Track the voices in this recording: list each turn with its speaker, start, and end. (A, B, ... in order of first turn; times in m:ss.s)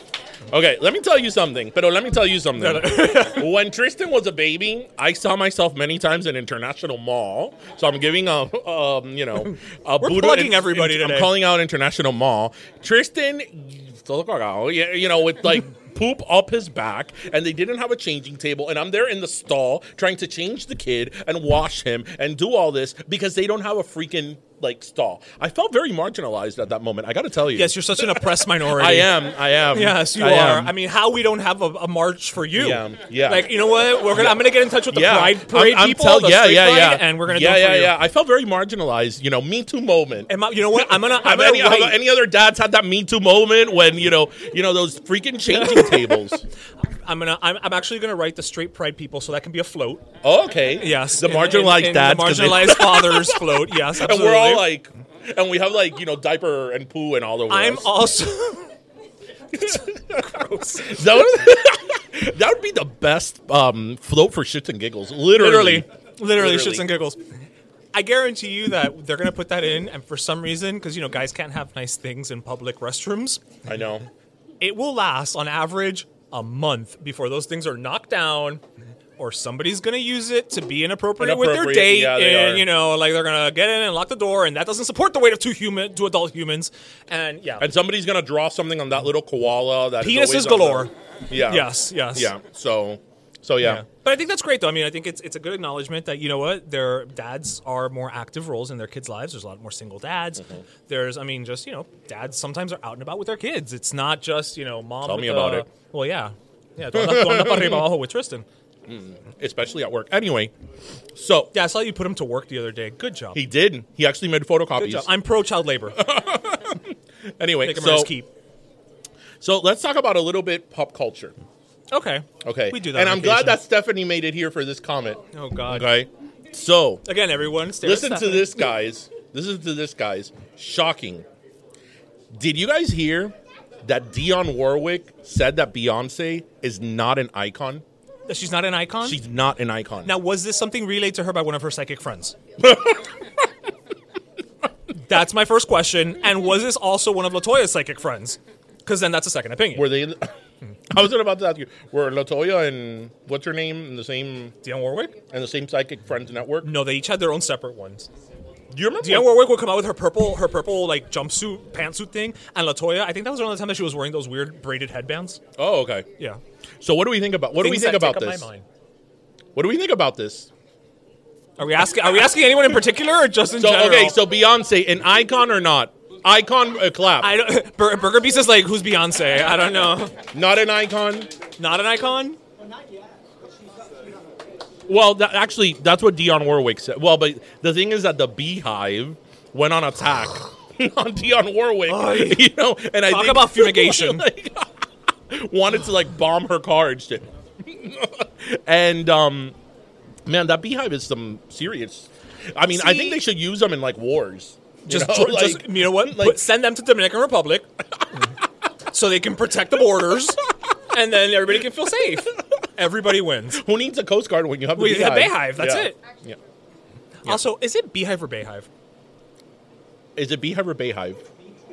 0:00.5-0:30.8 A
0:02.6-0:03.5 B
0:10.0-0:11.4 B
0:27.5-0:37.9 B
0:32.5-0:46.4 A
0:40.3-0:42.0 B
0:45.5-0:46.2 B
0:47.0-0:50.1 B
0:50.2-0:57.9 A
0:50.8-0:54.7 B
0:57.5-0:58.7 B
0:59.5-1:06.9 A
1:00.3-1:01.0 B
1:05.4-1:07.2 B
1:07.9-1:13.4 B
1:13.6-1:14.1 A
1:14.6-1:18.6 B
1:19.2-1:27.7 B
1:21.2-1:22.7 A
1:27.6-1:33.8 A
1:30.0-1:32.3 B
1:33.6-1:48.4 B
1:45.0-1:45.7 A
1:46.9-1:47.9 A
1:48.9-1:50.5 A
1:51.2-1:51.5 A
1:51.5-1:53.4 B
1:53.3-1:55.1 A
1:54.8-1:56.0 B
1:56.0-1:58.1 A
1:57.6-1:58.3 B
1:59.4-2:01.4 A
2:01.9-2:03.6 B
2:02.4-2:07.0 A
2:05.3-2:05.9 B
2:07.0-2:08.7 B
2:07.8-2:11.3 A
2:12.3-2:17.8 A
2:18.3-2:19.2 B
2:19.0-2:20.2 A
2:20.0-2:22.4 B
2:22.6-2:23.1 A
2:25.1-2:30.0 B
2:29.7-2:30.3 A
2:30.9-2:34.6 A
2:34.6-2:35.2 B
2:35.3-2:36.8 A
2:36.6-2:38.1 B
2:38.7-2:39.4 A
2:39.0-2:45.4 B
2:45.6-2:46.1 A
2:46.8-2:48.5 A
2:47.6-2:48.6 B
2:49.6-2:50.5 A
2:51.6-2:54.2 B
2:53.6-2:57.4 A
2:57.2-3:00.2 B
3:00.3-3:01.3 A
3:01.6-3:02.4 B
3:04.9-3:19.6 A
3:11.9-3:12.5 B
3:13.0-3:14.3 B
3:20.3-3:26.4 A
3:22.7-3:23.2 B
3:24.9-3:27.7 B
3:28.9-3:33.6 B
3:33.5-3:36.4 A
3:34.8-3:36.0 B
3:37.2-3:38.7 B
3:40.2-3:41.3 A